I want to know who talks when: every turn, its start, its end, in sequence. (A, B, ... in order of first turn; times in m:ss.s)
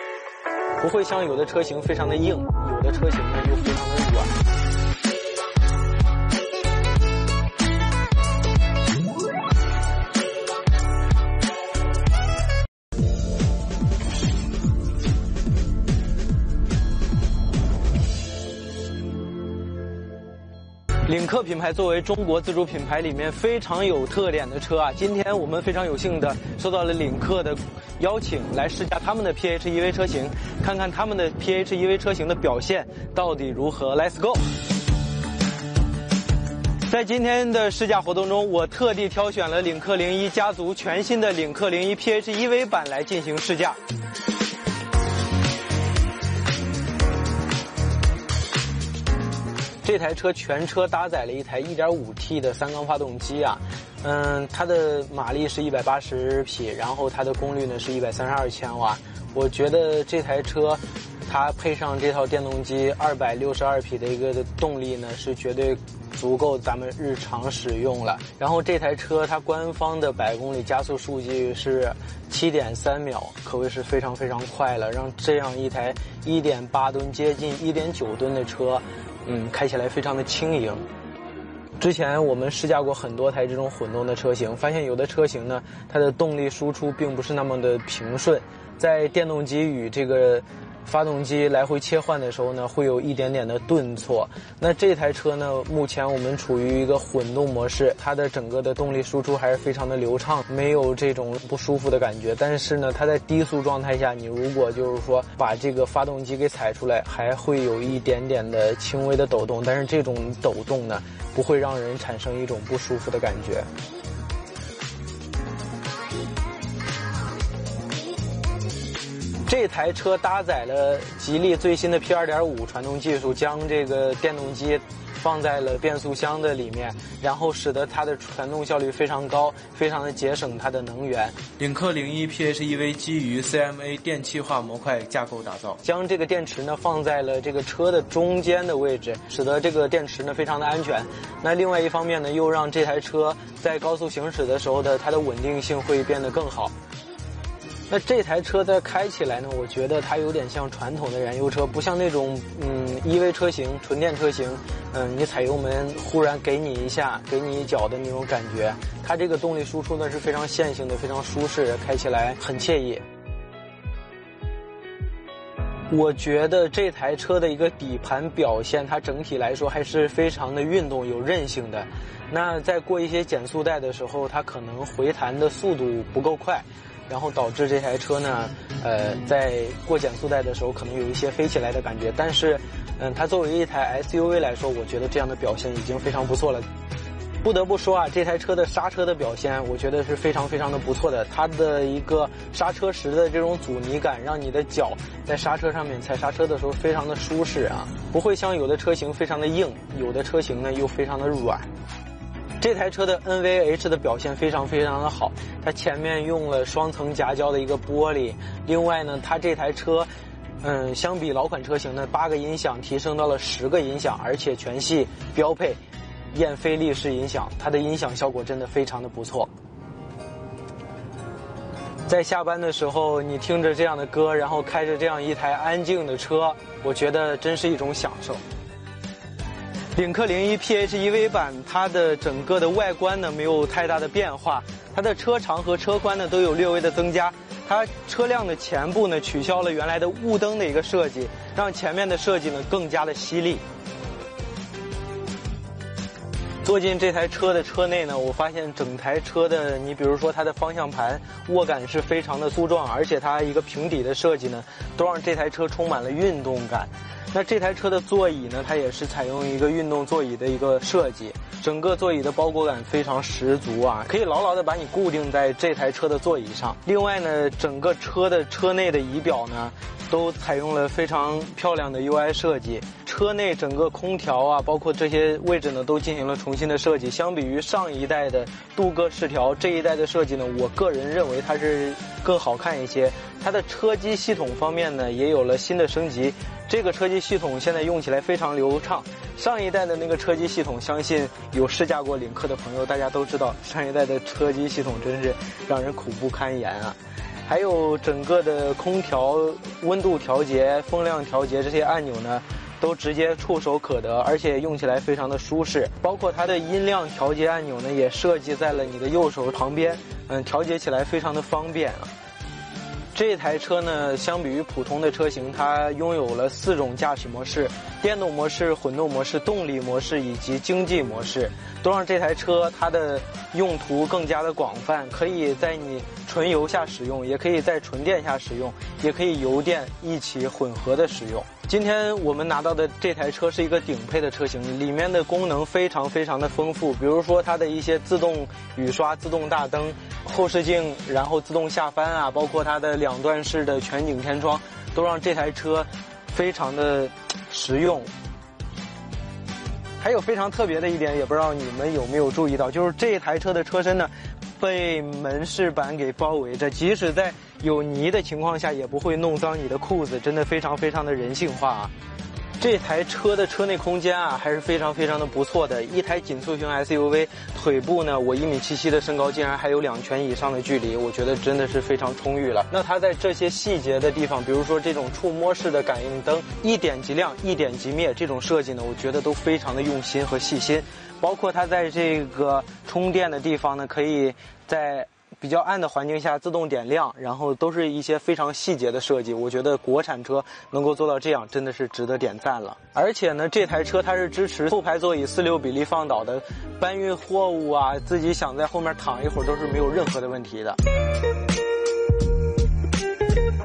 0:00.8-0:04.4 A
0:21.0-0:34.5 A
0:36.9-0:43.8 A
0:49.8-1:20.8 A
1:21.8-1:53.7 A
1:59.5-2:26.7 A
2:27.9-2:43.0 A
2:45.9-3:06.6 A
3:07.4-3:21.7 A
3:22.6-3:30.1 A
3:30.6-3:35.8 A
3:36.3-3:39.5 A
3:42.1-3:48.4 A
3:49.9-4:03.6 A
4:06.6-5:12.1 A
5:13.1-5:48.1 A
5:50.0-6:01.9 A
6:02.6-6:40.8 A